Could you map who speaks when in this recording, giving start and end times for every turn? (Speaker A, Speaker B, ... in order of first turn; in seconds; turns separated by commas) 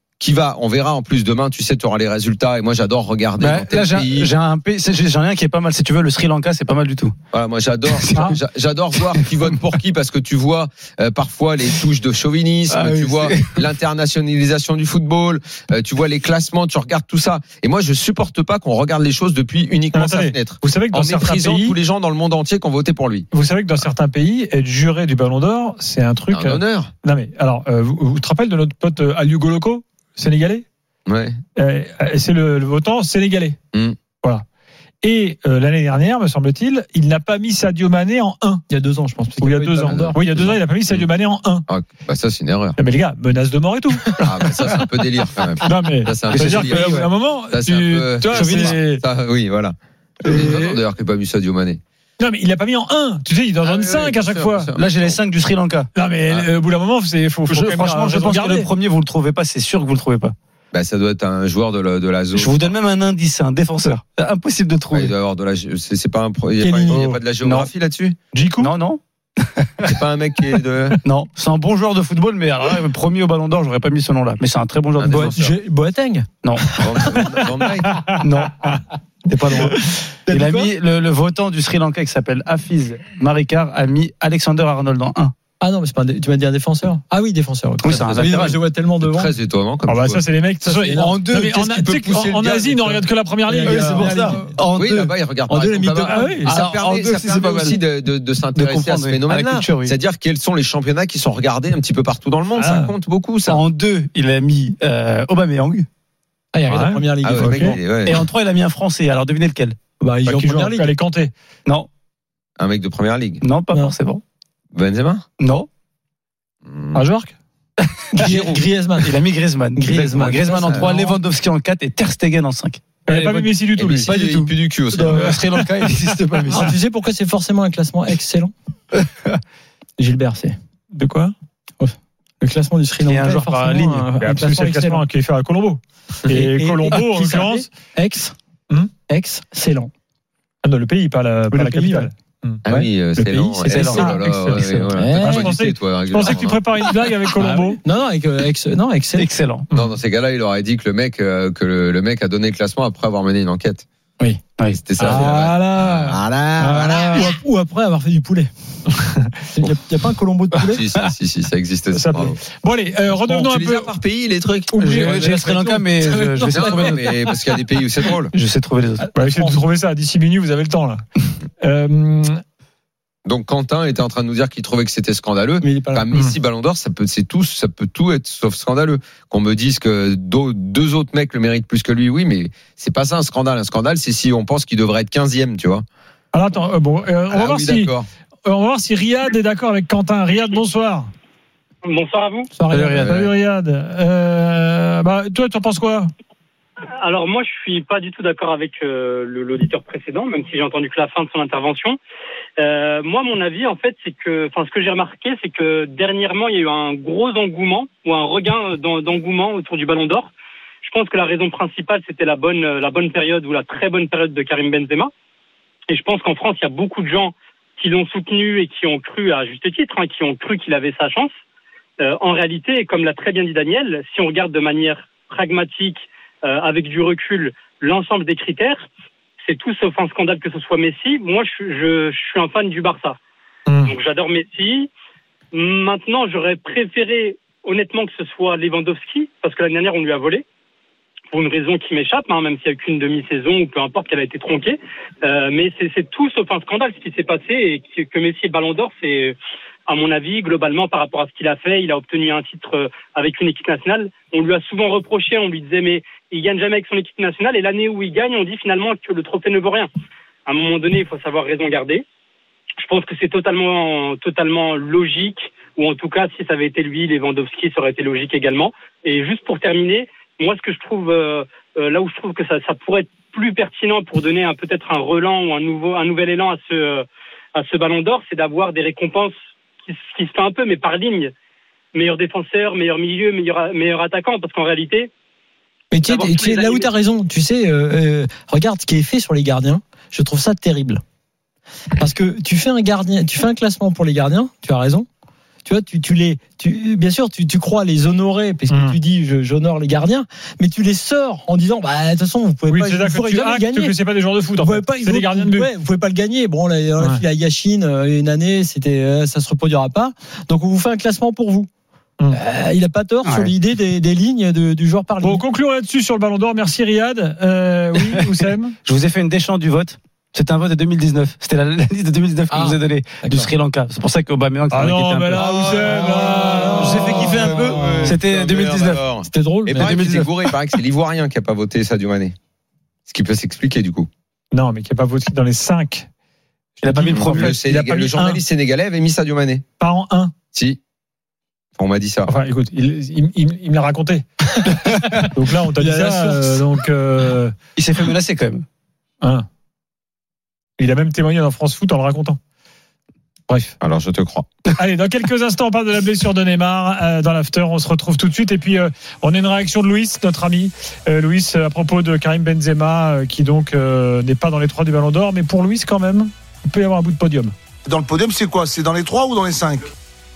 Speaker A: 0.2-4.3, Speaker B: 3.4-7.1, Speaker A: 7.3-23.3, Speaker B: 7.9-8.3, Speaker B: 12.7-13.6, Speaker C: 19.9-21.7, Speaker C: 23.3-30.6, Speaker A: 26.3-26.9, Speaker A: 31.1-31.4, Speaker C: 31.6-33.6, Speaker C: 35.0-38.6, Speaker D: 38.7-40.2, Speaker C: 39.4-41.6, Speaker A: 39.9-41.0, Speaker A: 41.7-42.8, Speaker C: 42.8-44.5, Speaker A: 44.2-46.9, Speaker C: 45.6-49.0, Speaker B: 46.3-47.1, Speaker A: 47.5-51.8, Speaker B: 48.3-48.8, Speaker B: 50.2-50.8, Speaker C: 52.2-54.7, Speaker A: 53.6-55.2, Speaker B: 54.7-55.9, Speaker C: 55.9-58.7, Speaker B: 57.5-60.3, Speaker A: 60.7-62.7, Speaker B: 62.3-65.1, Speaker A: 64.9-68.2, Speaker D: 66.6-67.1, Speaker B: 66.9-67.7, Speaker C: 68.3-68.7, Speaker B: 68.6-69.9, Speaker A: 69.8-71.0, Speaker B: 71.0-75.3, Speaker A: 75.0-75.5, Speaker D: 75.1-77.3, Speaker B: 76.4-76.7, Speaker A: 76.8-78.1, Speaker C: 77.9-78.2, Speaker B: 78.2-78.7, Speaker B: 79.2-85.3, Speaker D: 80.3-80.7, Speaker D: 85.6-89.3, Speaker B: 87.8-88.6, Speaker A: 87.9-90.2, Speaker C: 89.9-94.5, Speaker D: 90.7-94.5, Speaker B: 90.9-92.3, Speaker B: 93.6-95.1, Speaker A: 94.7-103.6, Speaker D: 95.5-96.5, Speaker C: 96.1-96.5, Speaker B: 96.4-97.8, Speaker B: 98.5-99.9, Speaker C: 102.5-102.9, Speaker B: 103.5-105.9, Speaker D: 106.5-107.8, Speaker C: 106.7-107.8, Speaker A: 107.2-108.2, Speaker B: 107.9-109.8, Speaker D: 110.0-110.9, Speaker C: 110.2-111.3, Speaker A: 112.6-113.4, Speaker B: 113.4-114.2, Speaker A: 114.7-115.2, Speaker B: 115.4-115.7, Speaker A: 116.7-117.0, Speaker C: 116.9-117.3, Speaker D: 118.1-119.2, Speaker A: 118.2-118.6, Speaker B: 119.0-123.5, Speaker D: 119.7-121.2, Speaker C: 123.1-124.2, Speaker A: 123.8-125.4, Speaker B: 124.1-126.7, Speaker D: 124.9-125.3, Speaker C: 125.5-126.7, Speaker D: 126.5-128.5, Speaker B: 128.9-129.4, Speaker D: 130.0-130.5, Speaker C: 130.9-131.3, Speaker D: 131.8-135.0, Speaker B: 133.0-134.1, Speaker C: 134.1-137.7, Speaker D: 136.3-138.3, Speaker D: 139.1-139.9, Speaker C: 140.6-142.6, Speaker D: 141.5-142.1, Speaker A: 142.7-146.8, Speaker D: 142.7-144.1, Speaker B: 143.7-144.0, Speaker C: 143.7-147.8, Speaker D: 144.9-145.5, Speaker D: 147.4-149.3, Speaker B: 149.2-149.7, Speaker A: 149.7-153.8, Speaker A: 154.7-157.3, Speaker C: 155.0-157.3, Speaker D: 156.6-158.5, Speaker D: 159.5-160.8, Speaker A: 160.6-162.4, Speaker C: 161.9-163.9, Speaker A: 163.1-164.7, Speaker C: 164.7-165.8, Speaker B: 164.7-167.0, Speaker D: 165.0-167.1, Speaker A: 166.5-168.3, Speaker B: 168.3-169.1, Speaker D: 169.1-169.6, Speaker C: 169.1-171.0, Speaker C: 171.6-172.4, Speaker A: 173.2-185.8, Speaker D: 175.6-176.1, Speaker C: 186.3-187.9, Speaker A: 187.3-188.1, Speaker C: 188.4-191.1, Speaker E: 191.8-192.5, Speaker D: 192.5-193.0, Speaker C: 192.7-196.1, Speaker A: 193.0-193.3, Speaker E: 197.0-202.0, Speaker E: 202.6-210.3, Speaker E: 210.8-215.1, Speaker E: 215.9-221.3, Speaker E: 222.0-228.8, Speaker E: 229.4-233.2, Speaker C: 233.7-233.9, Speaker E: 233.9-234.9, Speaker E: 235.5-240.4, Speaker E: 241.3-249.3, Speaker E: 249.9-259.9, Speaker E: 260.5-262.0, Speaker E: 262.8-281.3, Speaker E: 281.9-285.1, Speaker D: 285.9-291.0, Speaker E: 286.0-286.9, Speaker D: 292.0-295.1, Speaker D: 295.6-303.9, Speaker C: 298.7-299.0, Speaker C: 302.7-305.7, Speaker D: 304.6-311.7, Speaker D: 312.3-315.4, Speaker B: 313.2-313.5, Speaker C: 315.2-318.8, Speaker B: 318.0-329.0, Speaker D: 322.5-323.5, Speaker C: 324.7-328.0, Speaker D: 325.6-327.8, Speaker A: 327.3-332.3, Speaker D: 329.2-329.9, Speaker B: 329.8-330.3, Speaker A: 333.1-334.1, Speaker C: 334.5-336.1, Speaker C: 336.8-338.4, Speaker B: 336.8-337.5, Speaker A: 337.1-339.6, Speaker C: 339.8-340.3, Speaker A: 340.5-340.8, Speaker A: 341.8-342.3, Speaker C: 342.3-344.2, Speaker C: 345.2-347.5, Speaker D: 345.7-346.7, Speaker B: 347.8-348.6, Speaker C: 349.2-349.5, Speaker C: 350.8-352.4, Speaker C: 353.5-353.7, Speaker A: 353.8-354.5, Speaker C: 354.8-367.5, Speaker F: 367.9-369.8